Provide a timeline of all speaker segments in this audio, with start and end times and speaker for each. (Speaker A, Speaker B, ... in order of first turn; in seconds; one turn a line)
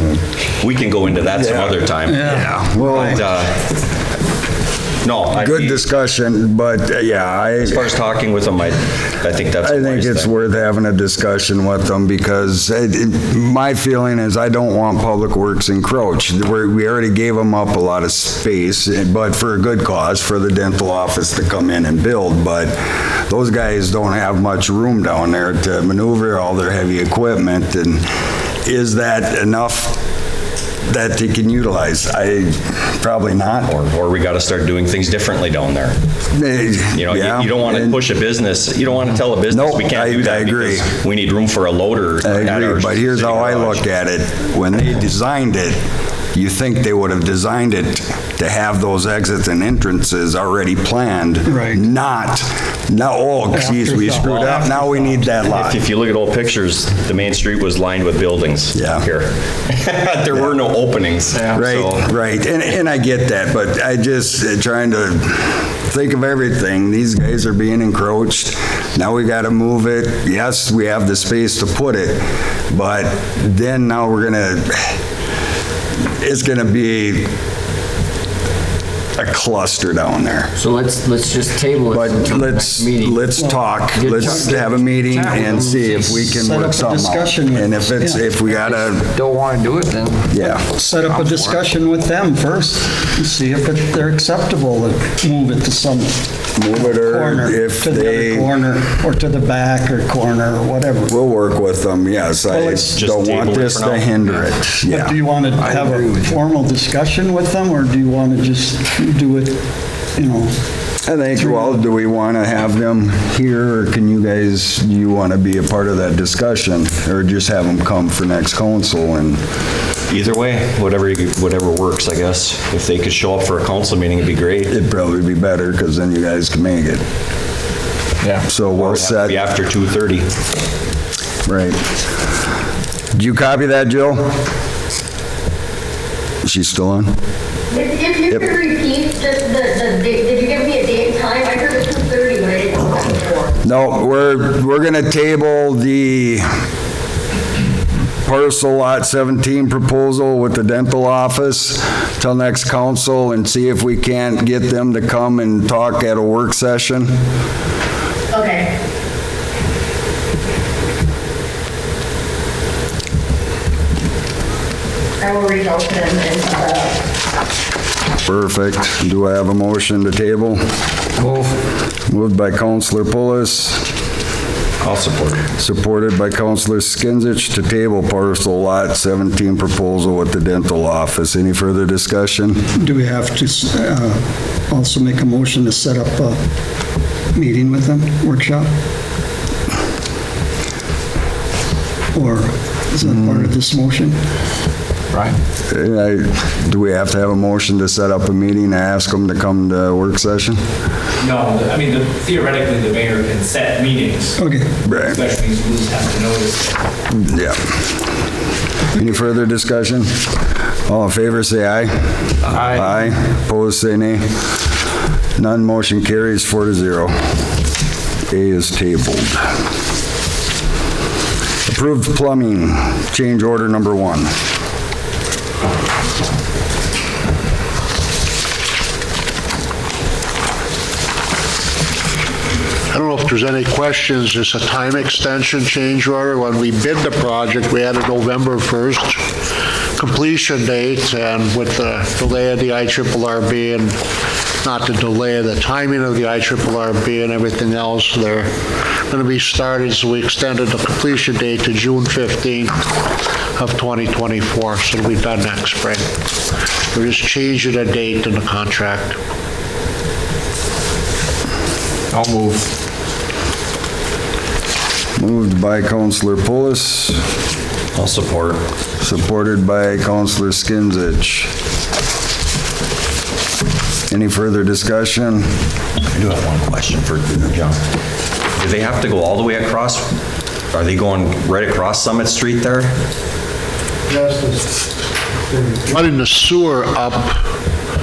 Speaker A: 0.6-3.6
Speaker B: 1.3-3.2
Speaker C: 2.1-3.2
Speaker A: 5.0-5.8
Speaker B: 5.3-7.9
Speaker A: 7.6-10.3
Speaker B: 9.6-28.1
Speaker B: 28.6-30.0
Speaker B: 30.8-33.7
Speaker A: 33.7-36.0
Speaker B: 36.3-38.0
Speaker A: 36.9-43.8
Speaker B: 39.5-40.9
Speaker B: 42.2-45.8
Speaker B: 46.3-55.8
Speaker C: 51.5-51.8
Speaker C: 53.5-54.8
Speaker A: 54.2-62.0
Speaker B: 58.7-59.0
Speaker B: 61.5-75.0
Speaker B: 76.2-77.3
Speaker B: 79.2-80.5
Speaker D: 80.6-83.3
Speaker B: 81.9-89.1
Speaker C: 83.4-83.7
Speaker D: 83.8-86.5
Speaker C: 84.2-84.5
Speaker C: 86.4-88.2
Speaker D: 88.5-90.3
Speaker B: 90.3-90.7
Speaker C: 90.7-96.1
Speaker D: 90.9-91.7
Speaker B: 96.6-98.5
Speaker C: 96.7-101.2
Speaker B: 101.1-106.2
Speaker C: 102.5-103.0
Speaker A: 103.0-104.4
Speaker C: 104.9-109.6
Speaker C: 110.2-110.5
Speaker B: 111.0-119.4
Speaker C: 111.4-111.8
Speaker A: 120.1-124.8
Speaker B: 124.7-127.0
Speaker B: 128.4-129.4
Speaker A: 128.8-130.3
Speaker B: 131.5-131.8
Speaker B: 133.1-134.3
Speaker B: 136.4-137.2
Speaker E: 137.7-143.6
Speaker B: 143.7-146.5
Speaker B: 148.2-157.1
Speaker E: 158.3-158.7
Speaker E: 165.2-167.0
Speaker B: 168.2-170.6
Speaker D: 171.2-171.5
Speaker B: 172.1-173.9
Speaker A: 174.8-175.5
Speaker B: 175.6-182.7
Speaker C: 182.8-186.4
Speaker C: 187.3-188.7
Speaker C: 192.1-194.2
Speaker B: 195.7-200.6
Speaker F: 201.2-206.7
Speaker C: 204.4-204.7
Speaker B: 204.9-205.2
Speaker B: 207.1-207.8
Speaker B: 209.0-214.5
Speaker D: 212.6-212.8
Speaker B: 215.4-217.3
Speaker B: 218.3-219.5
Speaker B: 221.7-224.3
Speaker G: 232.9-239.2
Speaker G: 240.0-244.0
Speaker G: 244.6-248.5
Speaker G: 249.1-253.0
Speaker G: 253.6-256.1
Speaker G: 256.9-259.2
Speaker D: 262.1-262.7
Speaker B: 265.2-267.2
Speaker A: 267.9-268.6
Speaker B: 269.0-271.5
Speaker B: 274.1-275.5
Speaker A: 276.1-277.8
Speaker A: 278.6-280.1
Speaker A: 280.7-282.9
Speaker G: 284.1-284.8
Speaker G: 285.5-287.4